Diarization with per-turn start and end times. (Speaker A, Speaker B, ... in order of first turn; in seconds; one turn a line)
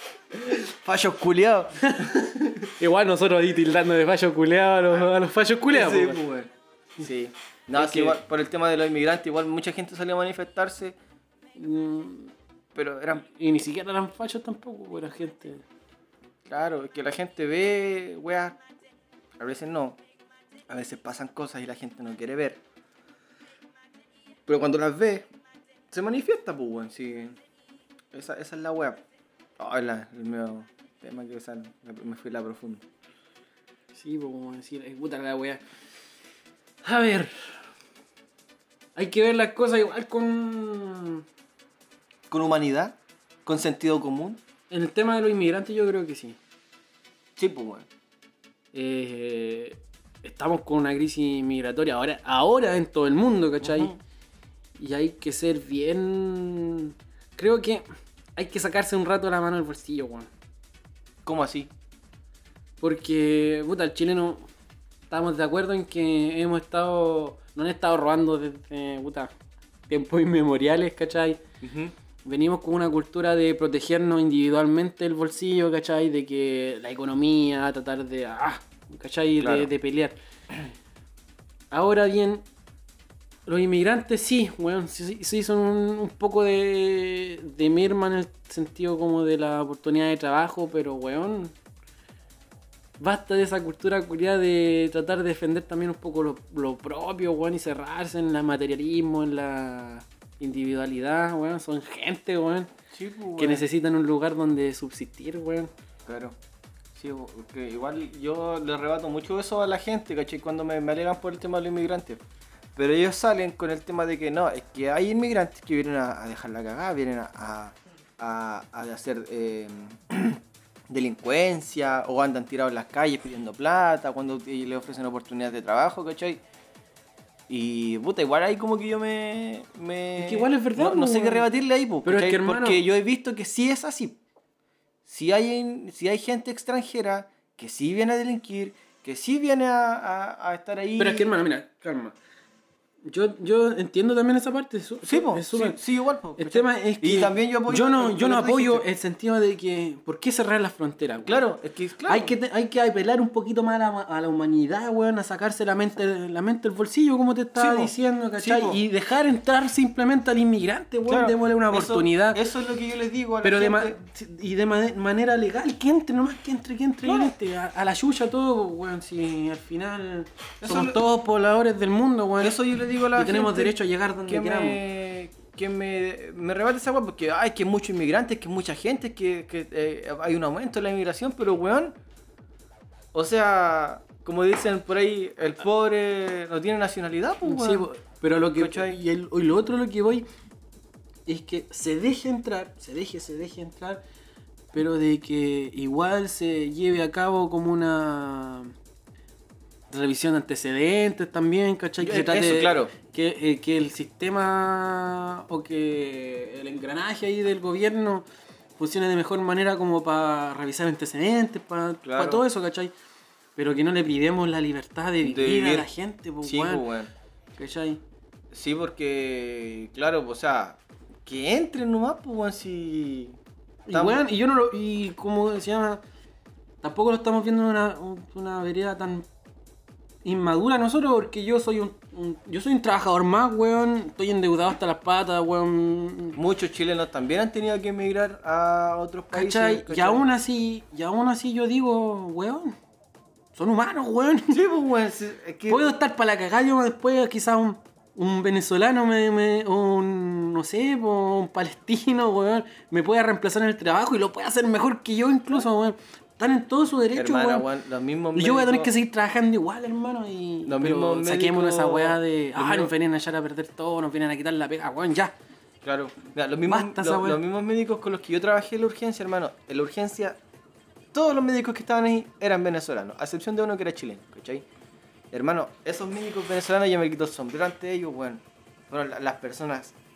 Speaker A: 0.4-2.7
Speaker B: 1.9-2.2
Speaker B: 2.8-6.2
Speaker A: 5.7-11.0
Speaker B: 7.8-8.2
Speaker B: 11.6-12.3
Speaker A: 12.8-13.2
Speaker B: 13.1-15.6
Speaker A: 16.5-18.6
Speaker A: 19.4-20.0
Speaker A: 20.7-22.6
Speaker A: 24.5-25.3
Speaker A: 25.9-27.4
Speaker A: 28.1-29.0
Speaker A: 29.6-32.9
Speaker B: 34.0-35.6
Speaker B: 36.8-37.5
Speaker B: 39.0-41.2
Speaker A: 42.3-44.4
Speaker B: 44.7-46.4
Speaker A: 47.4-47.9
Speaker B: 48.7-53.9
Speaker A: 53.6-54.0
Speaker B: 54.8-57.9
Speaker B: 58.4-60.3
Speaker A: 61.2-61.7
Speaker B: 62.8-64.5
Speaker B: 65.1-69.3
Speaker B: 69.9-71.4
Speaker A: 71.6-71.9
Speaker B: 72.2-80.2
Speaker A: 79.4-79.7
Speaker B: 81.7-82.5
Speaker B: 83.5-91.6
Speaker B: 93.0-102.7
Speaker A: 102.9-103.7
Speaker B: 103.4-105.7
Speaker A: 106.1-106.4
Speaker A: 106.9-112.2
Speaker A: 112.8-126.4
Speaker A: 127.5-134.2
Speaker B: 130.2-131.5
Speaker B: 132.0-132.8
Speaker A: 135.1-141.4
Speaker B: 141.0-142.2
Speaker B: 143.0-145.8
Speaker A: 145.0-148.8
Speaker B: 146.4-151.4
Speaker A: 151.3-152.3
Speaker B: 152.1-162.4
Speaker A: 157.6-158.8
Speaker A: 161.1-164.0
Speaker B: 163.4-172.6
Speaker A: 167.0-167.3
Speaker A: 170.6-171.0
Speaker A: 172.4-182.0
Speaker B: 173.1-174.8
Speaker A: 183.1-187.9
Speaker B: 187.4-190.3
Speaker A: 188.6-189.0
Speaker B: 191.3-194.0
Speaker B: 194.7-198.7
Speaker B: 199.9-208.3
Speaker A: 202.0-202.9
Speaker B: 208.8-212.9
Speaker A: 212.0-212.4
Speaker B: 213.6-216.9
Speaker A: 215.2-215.9
Speaker A: 216.4-217.1
Speaker B: 217.6-218.0
Speaker A: 218.5-223.4
Speaker B: 223.9-226.0
Speaker A: 223.9-224.2
Speaker B: 226.8-229.3
Speaker B: 230.2-236.4
Speaker A: 236.4-240.3
Speaker B: 239.3-242.8
Speaker B: 243.6-244.6
Speaker A: 244.5-245.9
Speaker B: 245.7-257.7
Speaker A: 257.1-258.9
Speaker B: 258.4-265.3
Speaker A: 260.7-262.9
Speaker A: 265.8-270.4
Speaker B: 266.7-267.4
Speaker A: 271.1-274.7
Speaker A: 275.3-280.0